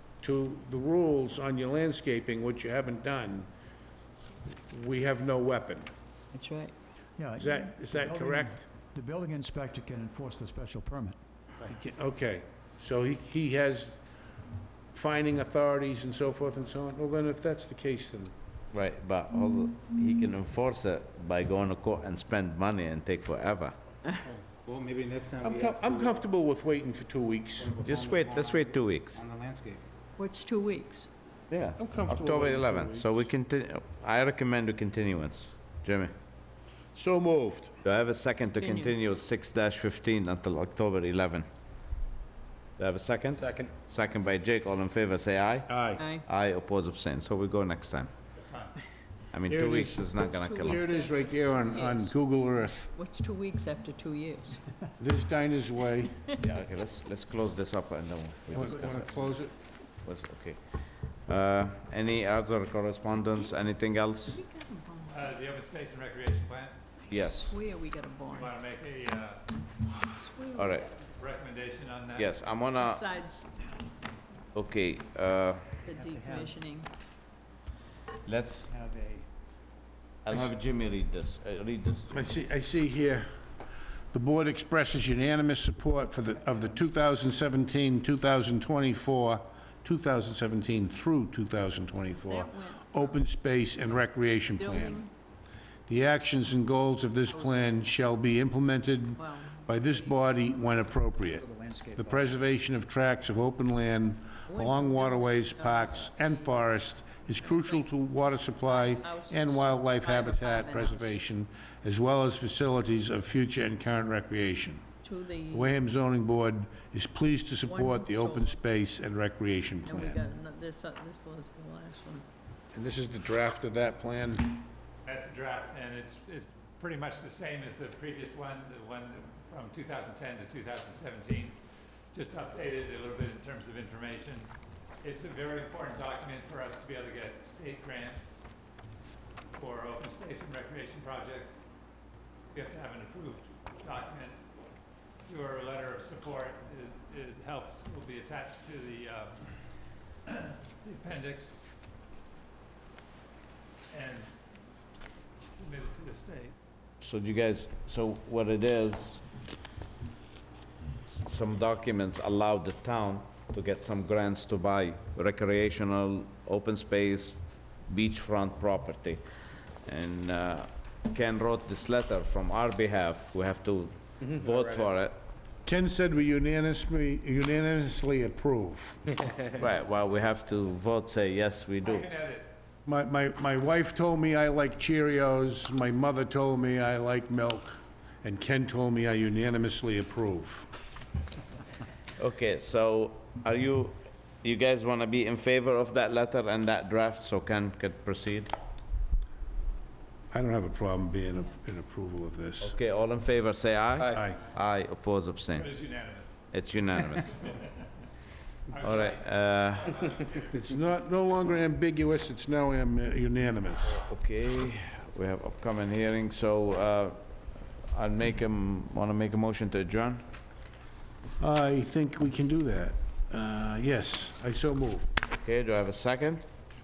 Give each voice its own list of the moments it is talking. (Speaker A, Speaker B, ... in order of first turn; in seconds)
Speaker A: 0.2-3.5, 4.7-5.9, 7.4-8.7, 11.7-14.0, 14.9-18.3, 25.4-27.8, 31.8-33.3, 36.9-37.8, 45.7-46.0, 49.5-52.9, 55.0-56.2, 58.5-59.5, 82.1-83.3, 84.1-95.0, 95.9-114.8, 115.5-120.2, 122.7-124.6, 175.7-179.0, 182.9-190.7, 200.3-202.8, 204.1-204.4, 210.5-214.0, 221.4-225.1
Speaker B: 6.3-6.8, 30.2-31.1, 38.6-38.9, 46.0-46.2, 50.2-52.1, 52.9-54.6, 64.3-65.3, 67.0-68.5, 70.0-70.9, 72.8-73.6, 75.8-76.9, 92.1-93.2, 94.5-95.1, 97.3-97.6, 99.2-100.3, 104.5-106.6, 107.4-107.8, 108.6-111.2, 115.0-115.7, 117.7-118.6, 119.9-122.3
Speaker C: 7.2-11.2, 76.0-76.6, 78.7-79.3, 101.3-102.3
Speaker D: 18.7-23.7, 27.9-29.2, 31.5-36.1, 37.8-41.5, 42.8-48.1, 49.3-50.9, 56.4-59.2, 60.0-60.6, 61.2-64.4, 67.1-67.6, 70.5-70.9, 72.2-73.1, 74.5-75.6, 78.2-78.7, 80.2-82.2, 157.0-159.2, 161.1-169.2, 169.8-175.2, 179.5-182.1, 192.2-198.5, 202.6-205.7, 206.5-207.4, 208.8-210.1, 214.1-220.2, 225.3-226.4
Speaker E: 24.4-26.3, 27.6-29.8, 43.4-43.7
Speaker F: 48.4-48.8, 65.1-66.8, 68.3-69.4, 71.2-72.3, 125.0-131.6, 132.1-134.5, 135.0-138.4, 139.5-141.7, 142.5-144.4, 145.3-149.5, 150.3-151.6, 153.9-154.3, 155.5-156.6, 181.8-182.6, 205.5-206.4, 207.1-207.8, 208.7-210.7